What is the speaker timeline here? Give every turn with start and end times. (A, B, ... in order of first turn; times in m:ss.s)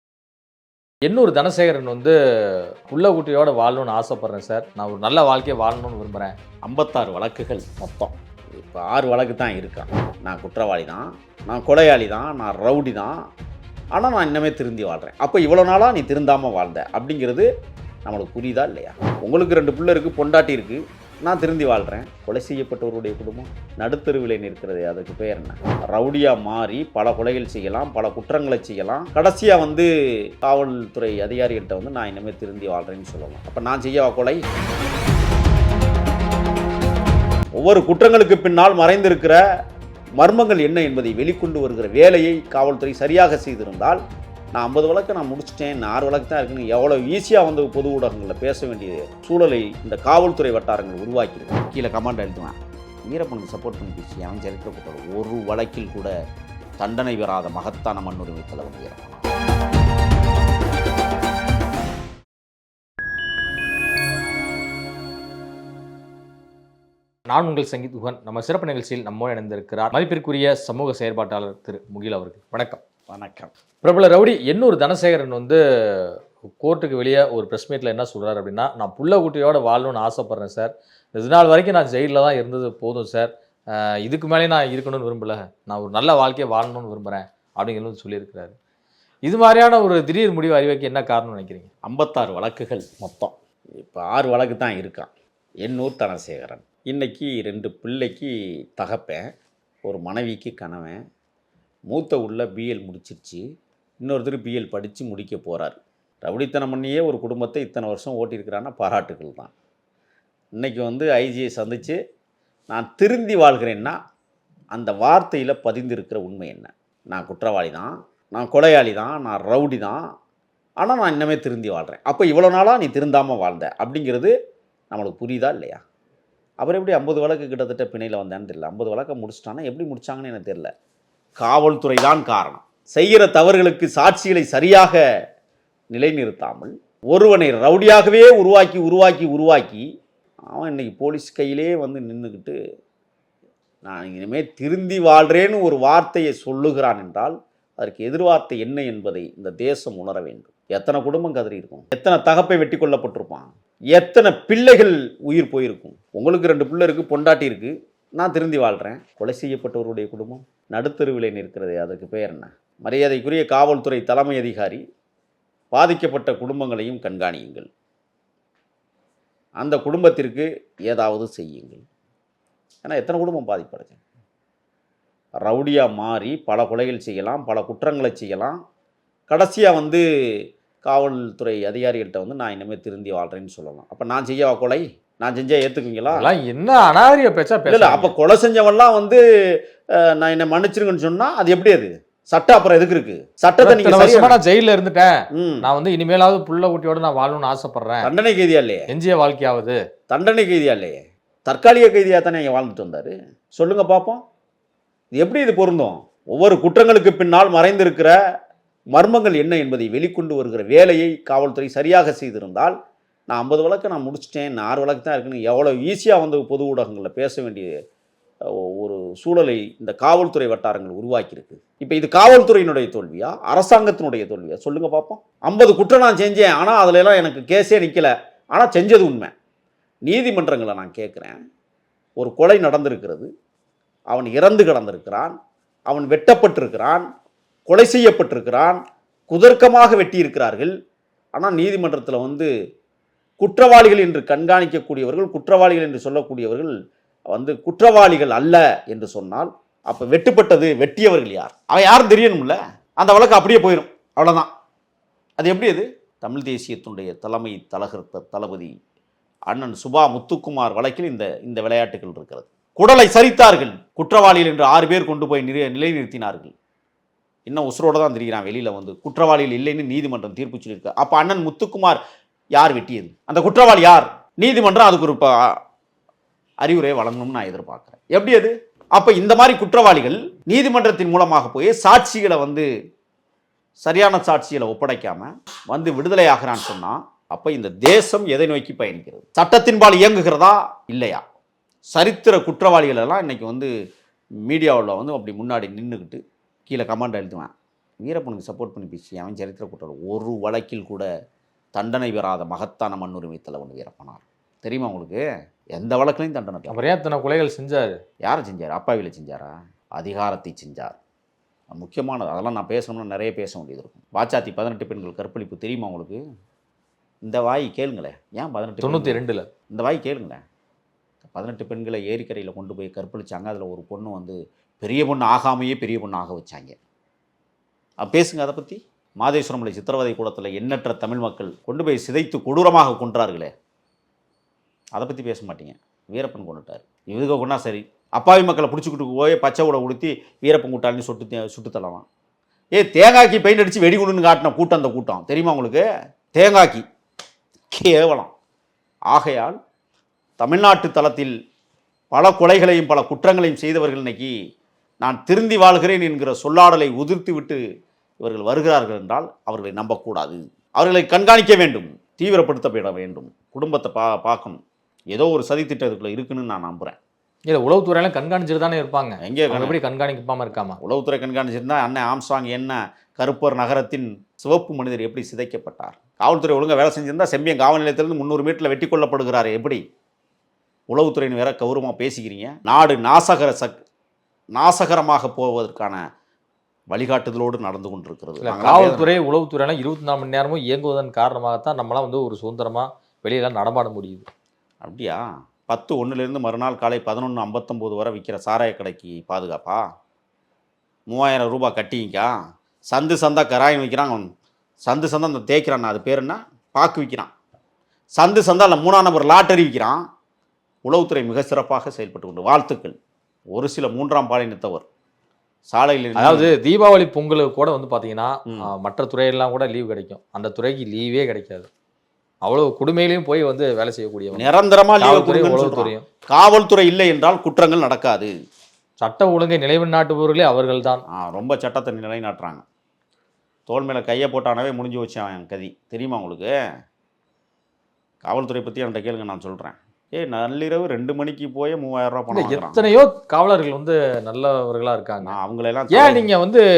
0:01.0-0:06.3 A
0:06.6-0:13.2 B
0:13.9-0:17.5 B
0:18.1-0:34.4 B
0:37.6-0:39.4 B
0:40.2-0:44.0 B
0:44.6-0:56.1 B
0:56.8-0:59.2 B
1:07.3-1:12.8 A
1:13.1-1:13.5 B
1:13.8-1:28.6 A
1:29.2-1:31.7 A
1:31.8-1:35.1 B
1:35.6-1:39.2 B
1:39.8-1:41.0 B
1:41.9-1:43.4 B
1:44.0-1:49.5 B
1:50.6-1:52.0 B
1:52.7-1:54.0 B
1:54.7-2:00.0 B
2:00.8-2:04.3 B
2:04.9-2:05.8 B
2:06.6-2:10.7 B
2:11.4-2:15.0 B
2:15.9-2:19.8 B
2:20.5-2:22.6 B
2:23.8-2:44.8 B
2:45.7-2:47.7 B
2:49.6-2:51.8 B
2:52.8-2:54.0 B
2:55.4-2:58.6 B
2:59.3-3:00.0 B
3:00.9-3:06.3 B
3:06.1-3:08.1 A
3:07.7-3:09.2 B
3:10.0-3:14.4 B
3:13.6-3:18.1 A
3:15.3-3:15.7 B
3:18.0-3:18.9 B
3:18.9-3:19.8 A
3:20.1-3:24.2 B
3:25.2-3:28.1 B
3:29.0-3:32.8 B
3:33.3-3:37.7 B
3:38.5-3:49.3 B
3:50.1-3:51.4 B
3:52.2-3:53.3 B
3:54.1-3:55.4 B
3:55.9-3:57.0 B
3:57.7-4:00.7 B
4:01.4-4:02.5 B
4:03.4-4:06.7 B
4:07.3-4:14.5 B
4:15.4-4:18.7 B
4:19.5-4:26.5 B
4:27.5-4:32.0 B
4:32.6-4:35.6 B
4:36.6-4:42.7 B
4:43.8-4:51.2 B
4:51.9-4:53.7 B
4:54.5-5:01.1 B
5:01.8-5:05.2 B
5:05.8-5:06.8 B
5:06.7-5:08.0 A
5:08.2-5:11.0 B
5:11.7-5:16.2 B
5:17.2-5:20.4 B
5:18.8-5:19.5 A
5:21.2-5:26.8 B
5:28.0-5:33.5 B
5:35.0-5:42.1 B
5:42.8-5:46.8 B
5:47.7-5:48.3 B
5:49.1-5:49.6 B
5:50.4-5:51.3 B
5:52.1-5:54.3 B
5:55.0-5:57.6 B
5:58.2-6:04.6 B
6:05.1-6:07.0 B
6:07.5-6:10.8 A
6:09.2-6:09.8 B
6:10.8-6:19.8 B
6:20.9-6:23.8 B
6:24.6-6:26.0 B
6:26.9-6:29.1 B
6:28.4-6:34.3 A
6:34.8-6:39.8 B
6:41.1-6:42.4 B
6:42.9-6:44.3 B
6:44.8-6:47.3 B
6:48.2-6:50.0 B
6:50.8-6:53.0 B
6:53.5-6:54.9 B
6:55.7-6:56.6 B
6:56.2-7:01.7 A
7:02.4-7:06.1 A
7:04.3-7:08.3 B
7:09.0-7:11.0 A
7:11.1-7:12.6 B
7:13.7-7:16.6 B
7:18.2-7:23.0 B
7:22.3-7:25.4 A
7:25.2-7:26.3 B
7:25.9-7:26.6 A